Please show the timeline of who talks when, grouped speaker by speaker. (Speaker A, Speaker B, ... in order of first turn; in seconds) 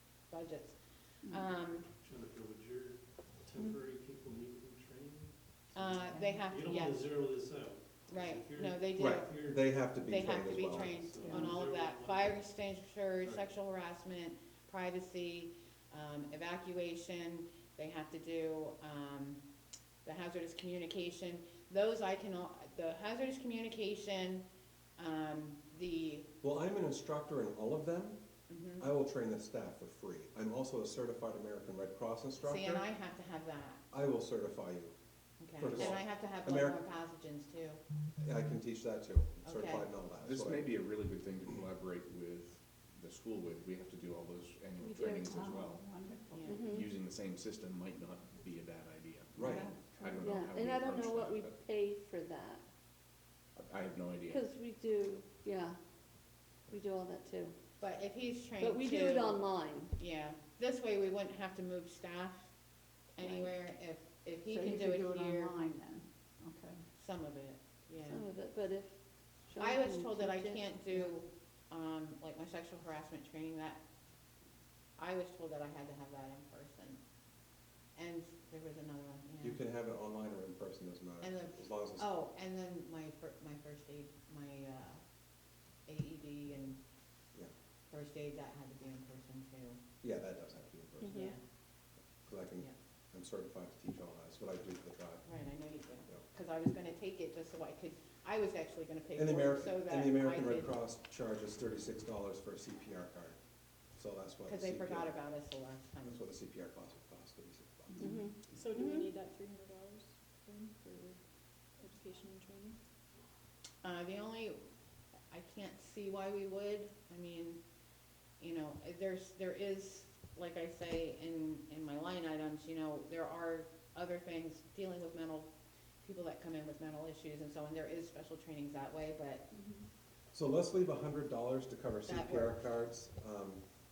Speaker A: 0.3-1.9, 5.7-7.2, 8.1-19.4, 20.1-24.4, 25.0-26.3, 28.5-28.9, 32.4-33.8, 35.4-37.8, 39.5-39.9, 46.3-46.6, 57.8-62.5, 63.1-65.5, 67.0-68.2, 69.6-73.8, 75.0-77.0, 78.0-79.6, 81.2-85.0, 85.8-86.8, 87.9-89.8, 91.1-91.4, 95.2-100.8, 104.5-106.2, 113.8-114.6, 115.3-117.6, 118.4-125.5, 126.0-129.4, 132.1-132.6
Speaker B: 2.0-12.5, 13.2-13.5
Speaker C: 6.1-6.5, 11.2-11.6, 44.8-46.6, 49.4-50.4, 64.5-66.8, 108.0-108.2
Speaker D: 9.0-11.0, 26.4-28.2, 28.8-32.9, 33.9-34.9, 35.6-36.8, 38.2-40.8, 49.4-49.7, 79.4-82.1, 90.0-91.3, 92.2-95.3, 99.2-103.4, 104.0-105.2, 106.0-108.0, 130.3-133.6
Speaker E: 40.2-45.8, 46.7-51.6, 53.5-54.4
Speaker F: 46.5-46.9, 50.2-52.7, 54.3-55.8, 56.7-57.5, 58.6-60.0, 63.2-63.5, 68.0-71.1, 91.0-91.3, 108.0-109.1
Speaker G: 108.4-111.2, 111.8-112.8